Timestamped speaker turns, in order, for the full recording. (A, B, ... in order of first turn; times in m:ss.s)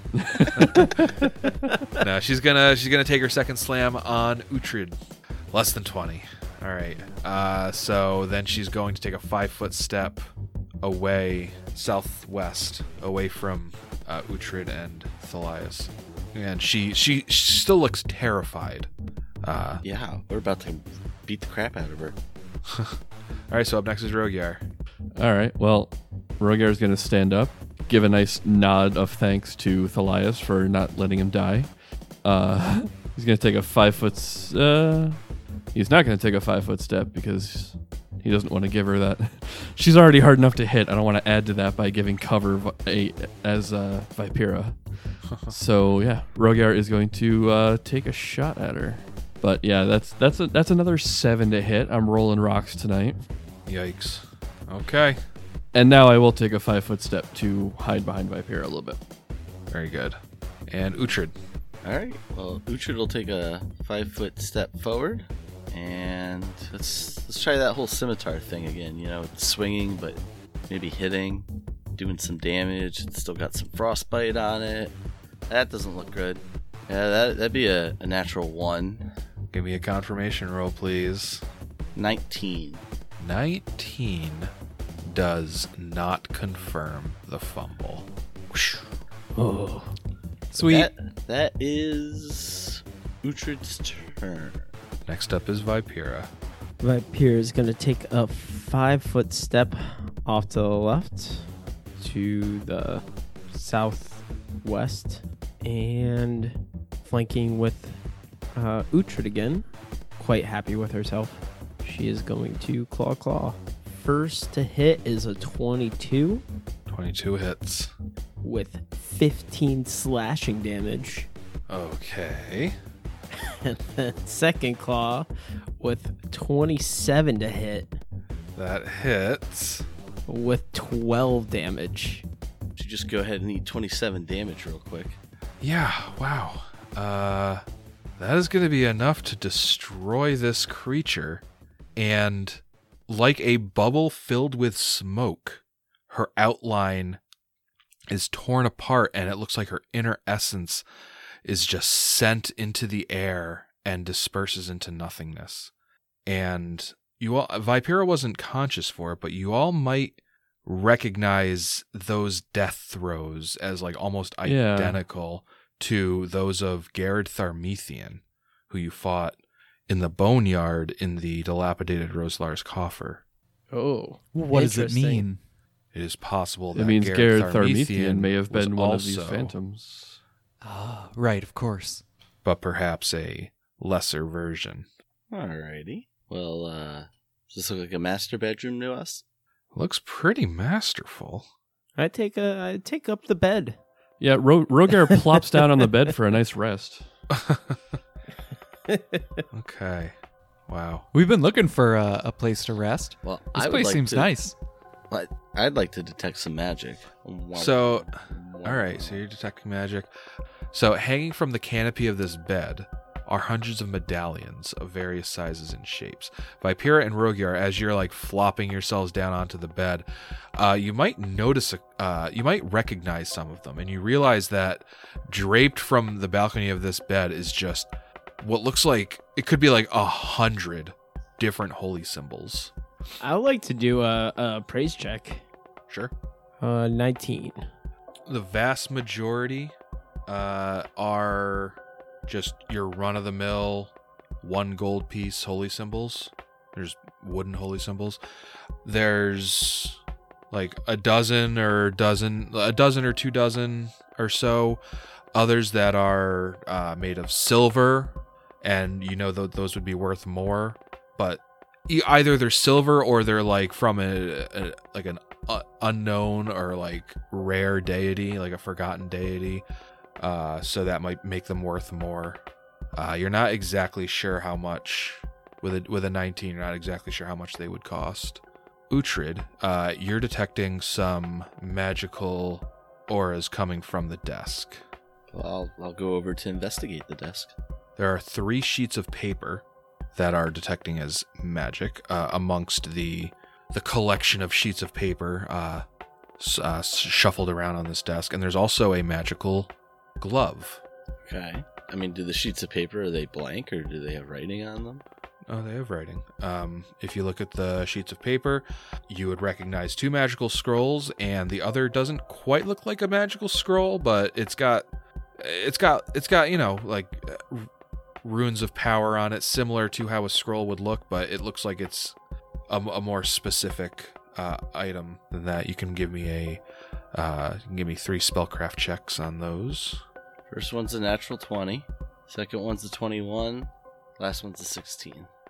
0:00.1-0:01.1 A
0:00.3-0:01.1 B
0:02.0-0:05.0 B
0:05.5-0:10.3 B
0:10.8-0:18.9 B
0:19.4-0:19.8 B
0:19.8-0:22.2 C
0:22.7-0:23.0 B
0:23.5-0:24.6 B
0:25.2-0:31.7 A
0:32.2-0:35.2 A
0:35.7-0:53.2 A
0:53.7-0:55.2 B
0:55.7-0:59.0 A
0:59.7-1:00.2 B
1:00.7-1:01.3 B
1:01.8-1:14.9 C
1:15.5-1:19.0 C
1:19.5-1:21.4 B
1:21.9-1:22.8 C
1:23.2-1:24.5 B
1:25.0-1:28.7 B
1:29.3-1:29.9 D
1:30.5-1:30.9 E
1:30.6-1:34.6 C
1:35.0-1:36.3 B
1:36.8-1:48.0 D
1:48.5-1:56.4 D
1:56.9-1:57.9 B
1:58.4-2:01.3 D
2:01.7-2:02.8 B
2:03.3-2:05.3 D
2:05.8-2:07.9 D
2:08.5-2:09.8 B
2:10.3-2:12.2 D
2:12.8-2:15.2 C
2:15.6-2:17.6 B
2:18.2-2:21.4 B
2:22.0-2:27.2 B
2:28.1-2:30.8 B
2:31.4-2:35.7 B
2:36.2-2:53.2 B
2:44.4-2:45.0 A
2:53.7-2:55.2 D
2:54.3-2:55.4 E
2:55.9-2:59.5 B
2:56.7-3:00.2 A
3:00.6-3:02.0 E
3:02.4-3:04.9 B
3:05.3-3:09.2 C
3:09.7-3:11.5 B
3:12.0-3:13.8 D
3:14.2-3:17.0 A
3:17.3-3:17.8 B
3:18.9-3:19.4 D
3:19.5-3:20.1 B
3:20.7-3:21.0 B
3:21.1-3:24.5 E
3:23.2-3:24.3 C
3:25.1-3:29.2 C
3:27.5-3:30.1 B
3:30.7-3:52.7 B
3:53.2-3:55.4 D
3:55.9-3:56.1 B
3:56.6-3:57.6 D
3:58.3-3:59.7 B
4:00.3-4:08.2 B
4:08.8-4:10.0 B
4:10.5-4:14.8 B
4:15.3-4:29.6 B
4:30.2-4:32.4 B
4:32.9-4:44.8 B
4:45.3-4:47.5 C
4:48.0-4:55.8 B
4:56.4-5:00.8 B
5:01.2-5:05.0 C
5:05.5-5:14.8 B
5:15.4-5:17.7 B
5:18.2-5:22.2 B
5:22.7-5:26.6 B
5:27.1-5:30.0 B
5:30.5-5:35.3 C